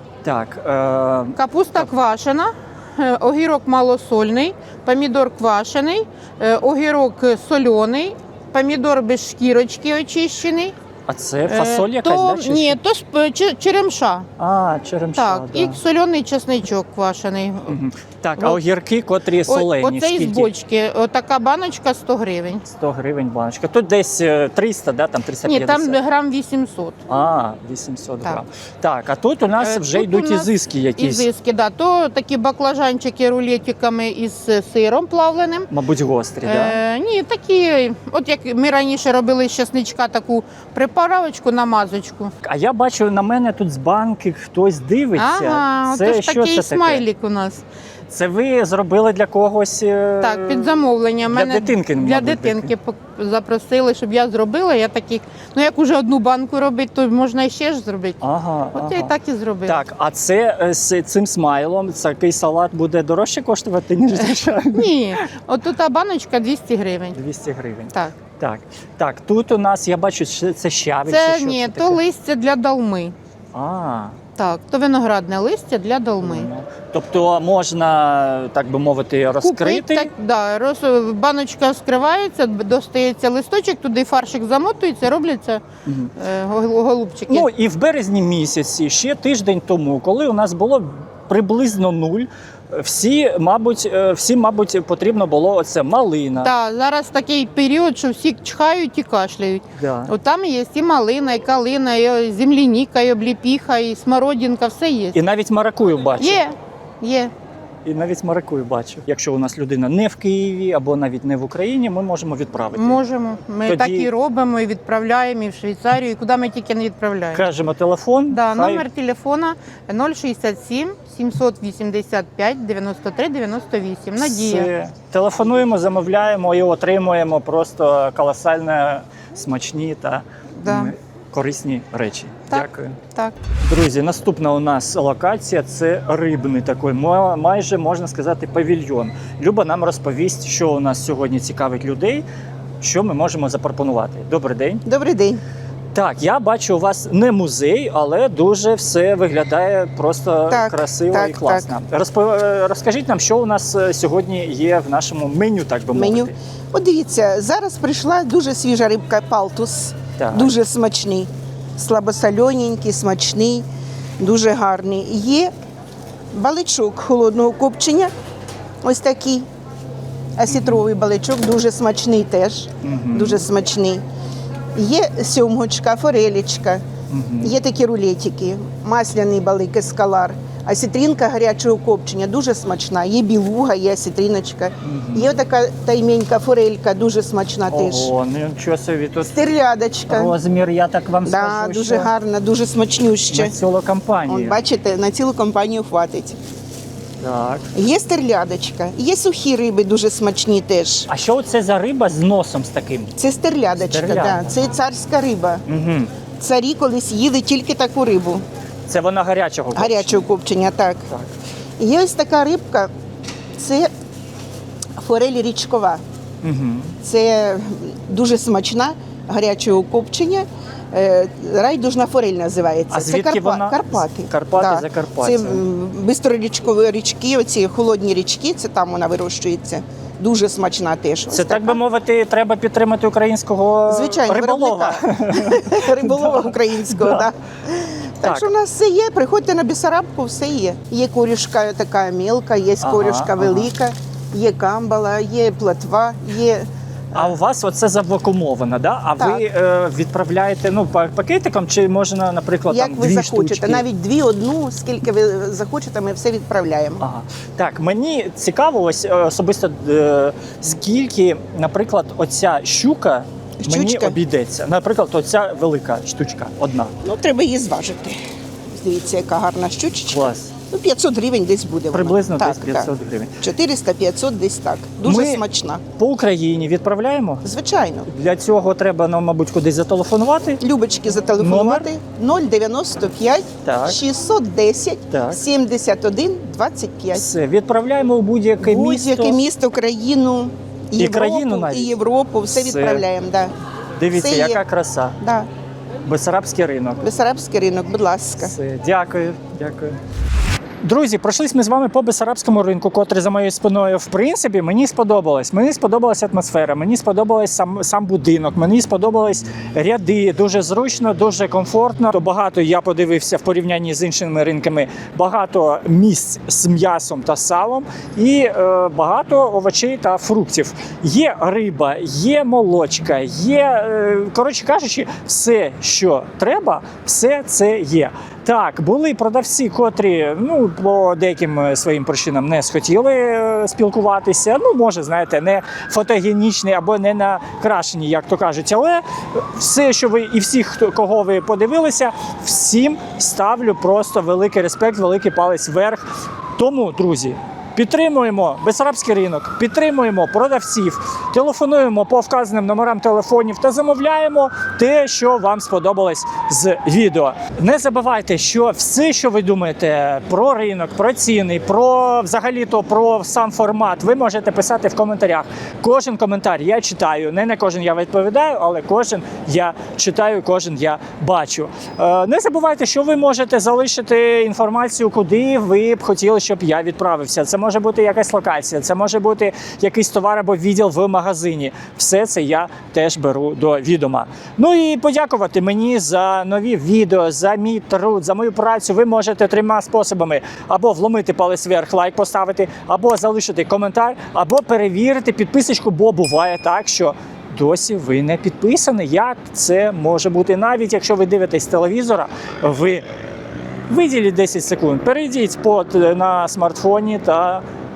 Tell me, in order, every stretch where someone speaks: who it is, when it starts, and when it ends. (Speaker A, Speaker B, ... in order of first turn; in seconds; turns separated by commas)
Speaker A: 0.2-1.9, Speaker B: 1.4-10.8, Speaker A: 11.1-12.8, Speaker B: 11.5-14.3, Speaker A: 14.4-15.8, Speaker B: 15.2-17.8, Speaker A: 17.7-20.5, Speaker B: 19.5-22.6, Speaker A: 22.6-26.0, Speaker B: 25.4-27.0, Speaker A: 27.1-31.3, Speaker B: 29.6-35.7, Speaker A: 35.7-36.8, Speaker B: 36.4-42.3, Speaker A: 42.4-47.0, Speaker B: 45.1-47.6, Speaker A: 48.1-52.7, Speaker B: 50.2-58.2, Speaker A: 58.2-59.1, Speaker B: 58.7-59.8, Speaker A: 59.7-65.2, Speaker B: 64.7-67.2, Speaker A: 67.1-72.0, Speaker B: 71.1-73.2, Speaker A: 73.5-74.2, Speaker B: 74.4-76.5, Speaker A: 76.2-80.1, Speaker B: 79.4-85.6, Speaker A: 85.9-86.1, Speaker B: 86.2-87.5, Speaker A: 87.3-96.5, Speaker B: 96.4-105.2, Speaker A: 99.8-100.1, Speaker A: 105.1-106.4, Speaker B: 106.2-107.3, Speaker A: 107.8-113.0, Speaker B: 112.7-117.5, Speaker A: 113.7-114.1, Speaker A: 117.3-118.8, Speaker B: 118.3-124.7, Speaker A: 124.2-133.0, Speaker B: 130.6-130.9, Speaker B: 132.5-133.4, Speaker A: 133.6-142.2, Speaker A: 142.8-144.8, Speaker C: 144.8-145.4, Speaker A: 145.9-156.3, Speaker C: 150.5-151.7, Speaker C: 155.9-163.7, Speaker A: 160.2-160.5, Speaker C: 164.2-165.5, Speaker C: 166.3-168.1, Speaker C: 168.8-169.5, Speaker C: 170.4-174.0, Speaker A: 170.5-170.8, Speaker A: 172.8-173.5, Speaker C: 174.8-176.8, Speaker A: 177.1-177.5, Speaker C: 177.4-188.1, Speaker A: 184.8-185.3, Speaker A: 187.7-189.5, Speaker C: 189.3-190.3, Speaker A: 190.1-192.1, Speaker C: 191.2-193.6, Speaker A: 193.3-194.6, Speaker C: 194.3-196.4, Speaker A: 197.2-197.7, Speaker C: 197.7-201.1, Speaker A: 201.1-203.2, Speaker C: 203.2-205.6, Speaker A: 203.9-204.6, Speaker A: 205.7-206.1, Speaker C: 206.4-208.4, Speaker A: 208.9-210.3, Speaker C: 209.8-211.1, Speaker C: 211.8-212.9, Speaker C: 213.6-213.9, Speaker C: 215.0-216.0, Speaker A: 216.4-217.0, Speaker C: 217.0-231.8, Speaker A: 222.9-225.6, Speaker A: 231.3-237.3, Speaker C: 233.9-247.3, Speaker A: 238.2-238.5, Speaker A: 242.8-243.7, Speaker A: 247.1-253.9, Speaker C: 249.2-249.4, Speaker C: 252.7-257.0, Speaker A: 257.0-267.0, Speaker C: 263.6-264.2, Speaker C: 267.0-268.2, Speaker C: 268.7-272.9, Speaker A: 270.1-270.5, Speaker A: 271.9-273.4, Speaker C: 273.4-275.8, Speaker A: 275.1-275.4, Speaker A: 276.0-277.4, Speaker C: 277.4-278.1, Speaker A: 278.1-280.6, Speaker C: 280.6-287.3, Speaker A: 281.4-281.9, Speaker A: 283.6-284.0, Speaker A: 285.1-285.4, Speaker A: 287.1-289.4, Speaker C: 288.6-293.5, Speaker A: 291.0-292.0, Speaker A: 292.5-293.1, Speaker A: 294.0-295.2, Speaker C: 294.1-294.6, Speaker C: 295.2-295.5, Speaker A: 296.0-297.1, Speaker C: 297.0-298.5, Speaker A: 298.4-300.0, Speaker A: 300.8-403.1, Speaker A: 403.9-407.6